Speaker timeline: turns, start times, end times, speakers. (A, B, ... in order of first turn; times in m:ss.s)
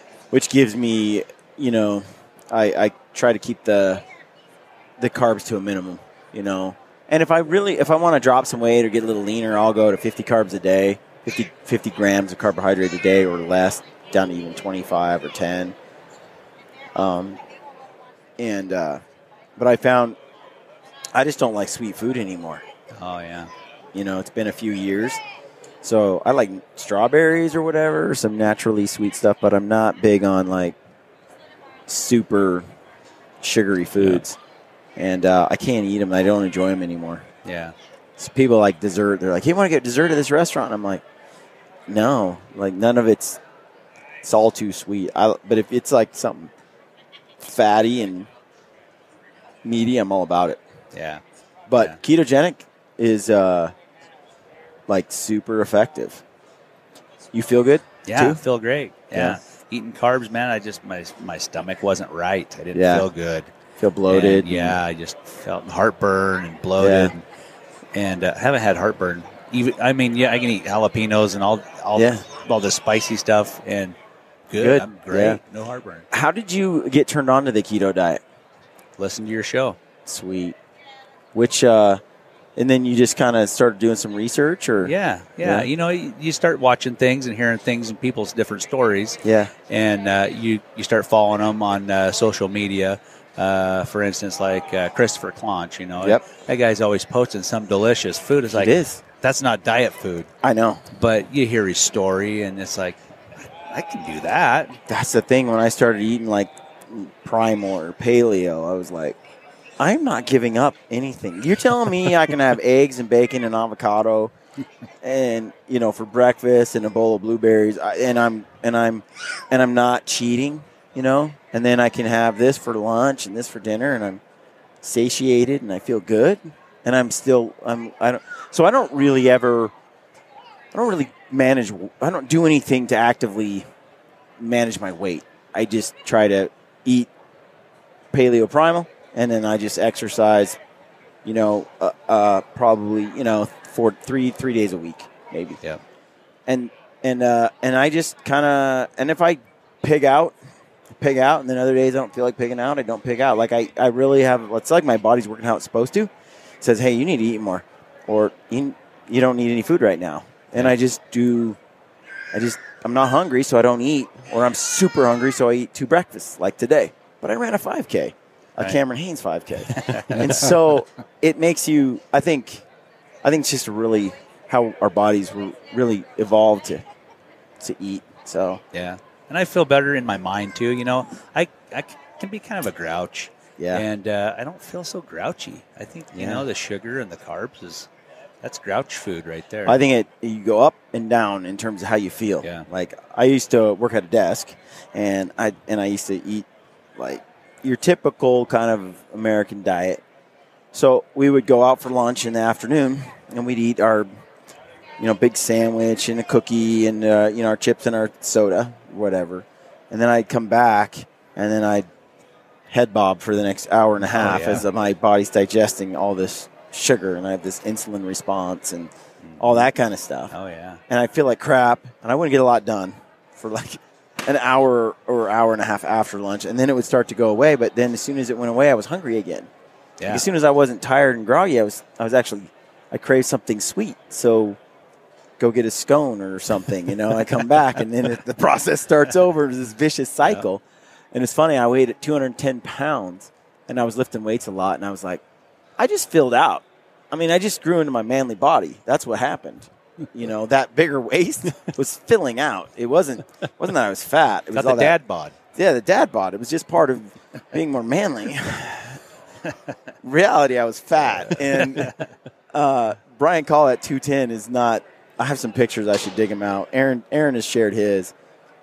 0:00.3-0:04.0 A
0:05.0-0:15.8 A
0:16.9-0:17.4 A
0:18.4-0:19.0 A
0:19.6-0:20.2 A
0:21.1-0:22.6 A
0:22.9-0:23.5 B
0:23.9-0:25.2 A
0:25.8-0:30.8 A
0:31.9-0:32.6 A
0:33.4-0:34.4 A
0:35.0-0:37.2 A
0:37.4-0:37.7 B
0:38.2-0:41.0 A
0:41.9-0:43.4 A
0:44.2-0:46.5 A
0:47.4-0:48.3 A
0:49.6-0:50.6 A
0:50.9-0:51.2 B
0:51.7-0:53.7 A
0:54.9-0:56.2 A
0:57.3-0:58.4 A
0:58.0-1:03.5 B
0:59.1-0:59.4 A
1:02.7-1:03.1 A
1:03.8-1:04.8 A
1:04.1-1:07.2 B
1:06.8-1:07.1 A
1:07.9-1:14.0 B
1:11.9-1:12.2 A
1:14.5-1:16.0 B
1:14.6-1:15.4 A
1:16.1-1:18.2 A
1:19.0-1:19.8 B
1:20.0-1:20.6 A
1:21.3-1:22.0 A
1:22.6-1:25.7 A
1:24.8-1:40.3 B
1:29.2-1:29.5 A
1:38.5-1:39.0 A
1:40.4-1:40.8 A
1:40.9-1:44.8 B
1:44.9-1:49.2 A
1:49.8-1:54.3 A
1:55.0-2:04.2 A
2:04.8-2:09.7 A
2:10.7-2:13.7 A
2:14.4-2:17.1 A
2:18.1-2:20.6 A
2:21.2-2:25.6 A
2:26.5-2:30.4 A
2:30.9-2:41.6 A
2:42.3-2:52.6 A
2:49.8-2:50.5 B
2:53.2-2:56.8 A
2:57.6-2:58.6 A
2:58.7-3:07.9 B
3:03.6-3:03.8 A
3:06.1-3:06.4 A
3:08.4-3:09.8 B
3:09.6-3:16.4 A
3:17.0-3:20.0 A
3:20.7-3:24.1 A
3:25.0-3:31.9 A
3:32.7-3:40.3 A
3:34.0-3:34.6 B
3:39.2-3:39.7 B
3:40.3-3:40.8 B
3:40.9-3:49.5 A
3:50.0-3:50.2 B
3:50.1-3:54.6 A
3:55.4-4:05.2 A
4:05.8-4:15.0 A
4:14.5-4:15.3 B
4:15.5-4:19.0 A
4:20.0-4:21.9 A
4:21.1-4:22.1 B
4:22.5-4:28.1 A